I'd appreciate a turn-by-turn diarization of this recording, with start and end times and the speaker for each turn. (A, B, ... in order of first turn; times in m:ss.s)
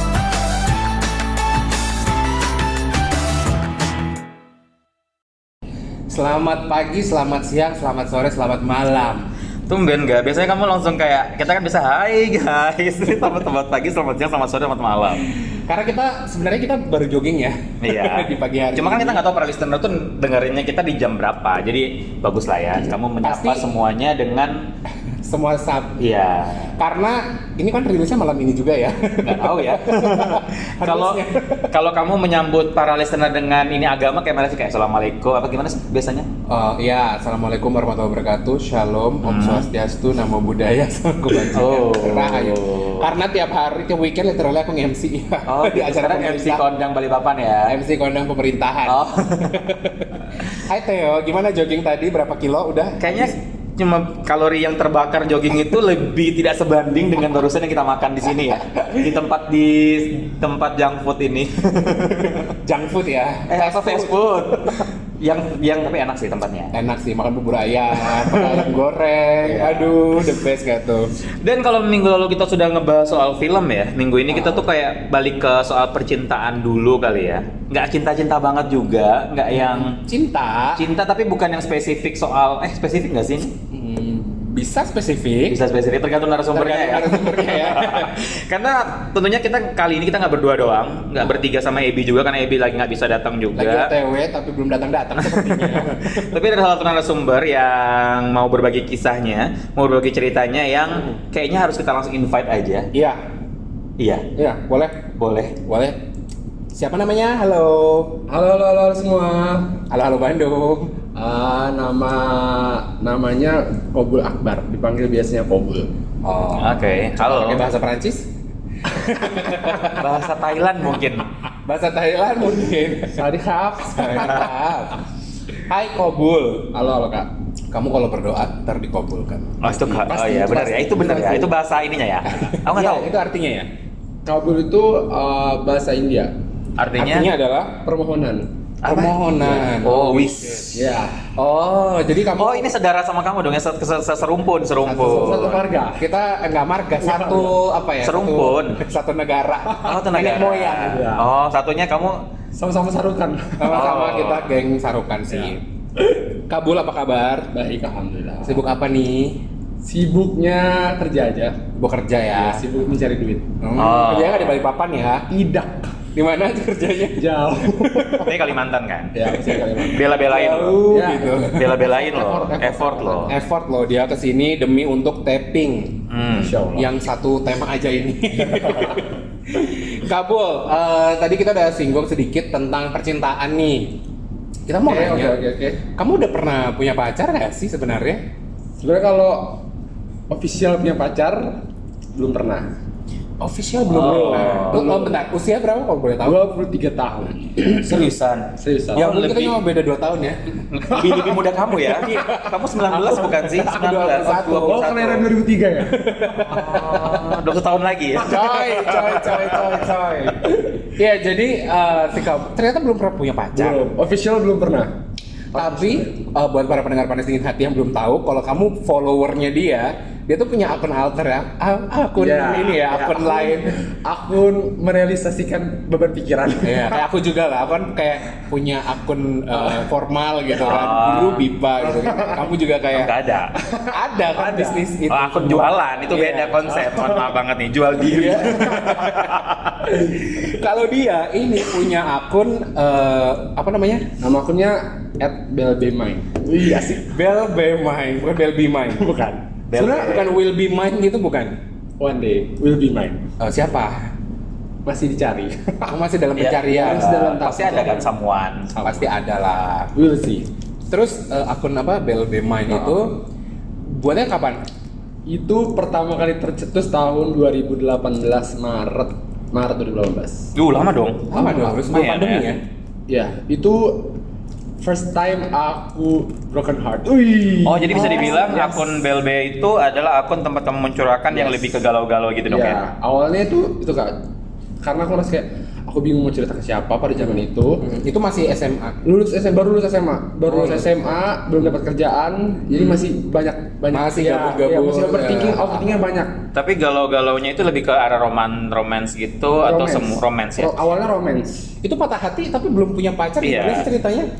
0:06.1-0:09.3 A
0:09.7-0:15.2 B
0:15.5-0:19.2 A
0:17.8-0:24.7 B
0:23.2-0:23.7 A
0:25.1-0:26.0 A
0:26.0-0:26.8 B
0:26.8-0:31.7 A
0:29.2-0:36.3 B
0:36.5-0:46.6 A
0:39.2-0:39.7 B
0:41.4-0:43.1 B
0:45.5-0:47.7 B
0:47.7-0:53.4 A
0:48.9-0:49.7 B
0:53.0-1:02.5 B
1:02.4-1:04.8 A
1:03.5-1:06.7 B
1:06.7-1:11.1 A
1:08.1-1:08.7 B
1:09.4-1:10.0 B
1:11.4-1:20.0 B
1:14.3-1:14.6 A
1:19.5-1:20.8 A
1:20.8-1:23.5 B
1:23.7-1:25.6 A
1:25.5-1:33.9 B
1:26.5-1:28.3 A
1:33.6-1:36.3 A
1:35.2-1:42.9 B
1:42.9-1:43.2 A
1:44.0-1:44.3 B
1:44.3-1:45.0 A
1:45.2-1:45.6 B
1:45.6-1:46.0 A
1:46.7-1:48.2 A
1:48.3-1:49.8 C
1:49.9-1:50.9 A
1:51.1-1:55.9 C
1:56.2-1:58.3 A
1:56.5-1:57.6 B
1:58.8-2:00.2 A
1:59.8-2:01.3 B
2:01.6-2:03.2 A
2:03.1-2:04.4 C
2:03.8-2:05.0 A
2:05.7-2:06.7 A
2:06.7-2:07.3 C
2:07.7-2:09.8 A
2:09.6-2:13.1 B
2:10.0-2:11.5 C
2:12.2-2:13.7 A
2:14.2-2:16.3 C
2:16.8-2:17.3 B
2:17.0-2:17.8 A
2:17.8-2:18.5 C
2:18.8-2:20.7 B
2:18.8-2:20.7 A
2:20.7-2:21.3 C
2:21.4-2:22.7 A
2:22.4-2:25.6 B
2:24.8-2:31.0 A
2:25.0-2:26.0 C
2:27.0-2:27.6 C
2:28.0-2:28.8 B
2:29.7-2:30.0 C
2:29.8-2:32.2 B
2:30.8-2:31.2 C
2:32.5-2:34.0 C
2:33.6-2:35.6 A
2:33.7-2:34.5 B
2:35.3-2:35.5 C
2:36.5-2:37.5 A
2:37.5-2:38.6 C
2:38.4-2:39.4 A
2:39.8-2:41.6 C
2:41.7-2:42.6 A
2:42.3-2:43.5 C
2:43.6-2:45.3 A
2:43.8-2:44.6 B
2:45.3-2:45.9 C
2:46.1-2:48.3 A
2:47.2-2:48.3 C
2:48.2-2:49.1 B
2:49.1-2:50.0 C
2:49.3-2:51.8 A
2:49.8-2:50.9 B
2:50.9-2:53.3 C
2:51.4-2:53.3 B
2:53.3-2:56.0 A
2:56.1-2:56.6 B
2:56.3-2:56.9 C
2:56.7-3:04.0 A
3:04.7-3:05.4 A
3:04.8-3:05.8 C
3:05.9-3:08.2 A
3:08.8-3:09.6 C
3:10.3-3:11.6 C
3:12.1-3:12.7 C
3:13.4-3:16.4 A
3:13.9-3:15.2 C
3:13.9-3:14.8 B
3:16.2-3:18.0 C
3:17.7-3:19.6 B
3:18.6-3:19.1 C
3:18.9-3:20.4 A
3:20.7-3:25.3 B
3:20.9-3:21.3 C
3:21.8-3:24.9 A
3:24.6-3:27.3 C
3:25.9-3:27.3 A
3:26.5-3:29.1 B
3:28.2-3:30.9 C
3:28.2-3:29.6 A
3:30.9-3:33.9 A
3:33.5-3:34.9 C
3:35.5-3:36.2 C
3:35.5-3:43.8 A
3:42.2-3:47.0 C
3:46.6-3:53.1 A
3:50.6-3:51.4 B
3:51.8-3:52.4 C
3:52.9-3:53.5 B
3:53.7-3:54.9 C
3:53.9-3:56.6 A
3:55.1-3:59.8 B
3:56.7-3:57.3 C
3:58.0-4:04.0 A
3:58.2-3:59.2 C
4:04.2-4:07.1 C
4:07.0-4:09.1 A
4:09.0-4:09.5 C
4:09.7-4:10.3 B
4:09.8-4:11.6 A
4:12.0-4:13.2 C
4:13.4-4:14.1 A
4:14.8-4:15.9 C
4:15.9-4:17.3 A
4:16.4-4:18.7 B
4:16.6-4:18.1 C
4:18.7-4:19.1 C
4:18.8-4:19.9 A
4:19.9-4:20.5 C
4:20.9-4:23.3 A
4:22.7-4:23.0 C
4:23.8-4:24.6 A
4:25.3-4:30.5 C
4:30.6-4:32.4 B
4:31.3-4:32.6 A
4:31.3-4:31.7 C
4:33.1-4:34.2 C
4:34.8-4:38.9 C
4:37.6-4:42.8 B
4:37.9-4:38.6 A
4:41.3-4:41.8 C
4:42.5-4:44.2 C
4:44.8-4:47.8 C
4:47.2-4:49.0 A
4:49.0-4:56.4 C
4:50.4-4:50.9 A
4:52.7-4:53.0 A
4:53.9-4:55.9 A
4:56.5-5:00.9 B
4:59.6-5:01.7 C
5:01.8-5:04.3 A
5:03.4-5:03.9 B